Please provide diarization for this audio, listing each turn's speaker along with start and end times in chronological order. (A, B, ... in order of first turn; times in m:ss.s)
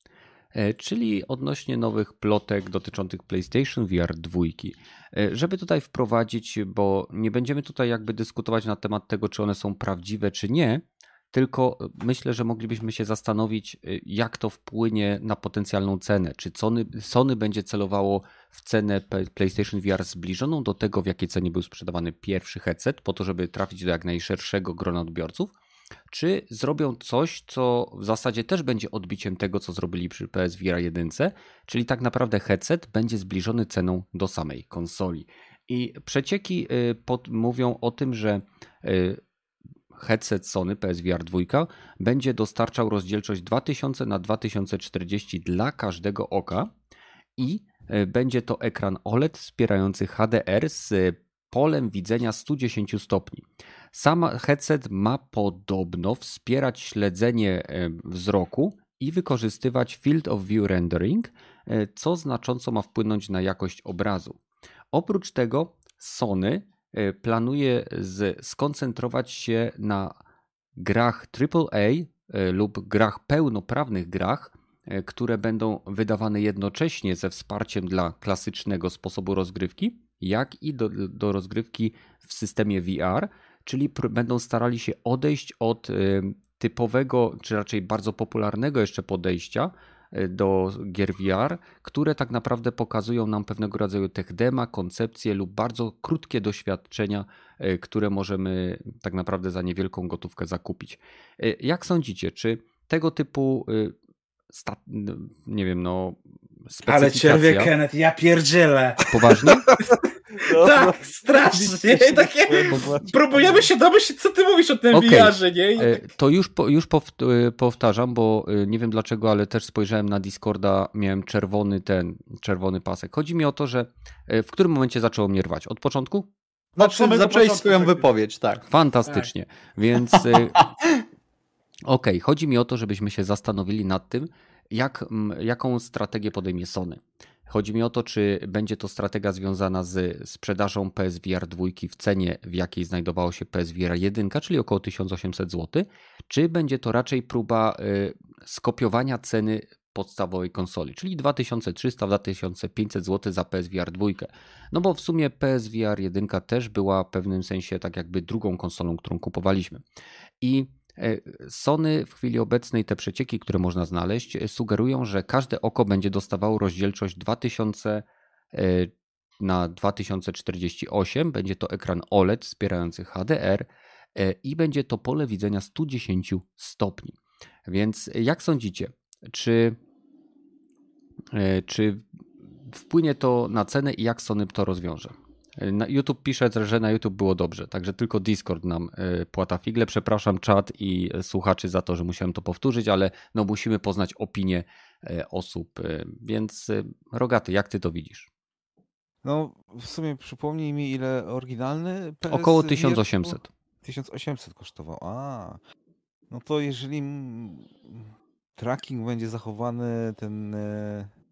0:00.5-0:25.5 A
0:26.1-0:39.2 A
0:40.0-0:46.7 A
0:47.4-1:04.4 A
1:04.9-1:10.1 A
1:10.8-1:43.9 A
1:44.5-1:47.7 A
1:46.9-1:49.5 B
1:49.1-1:49.7 A
1:49.7-1:53.7 C
1:50.4-1:55.9 B
1:54.9-2:06.3 A
2:06.8-2:08.0 C
2:06.8-2:08.6 D
2:08.7-2:10.6 A
2:10.1-2:10.6 D
2:11.9-2:39.8 A
2:40.4-2:59.8 A
3:01.3-3:02.0 A
3:02.7-3:18.3 A
3:19.2-3:25.6 C
3:22.3-3:23.5 A
3:26.3-3:31.1 C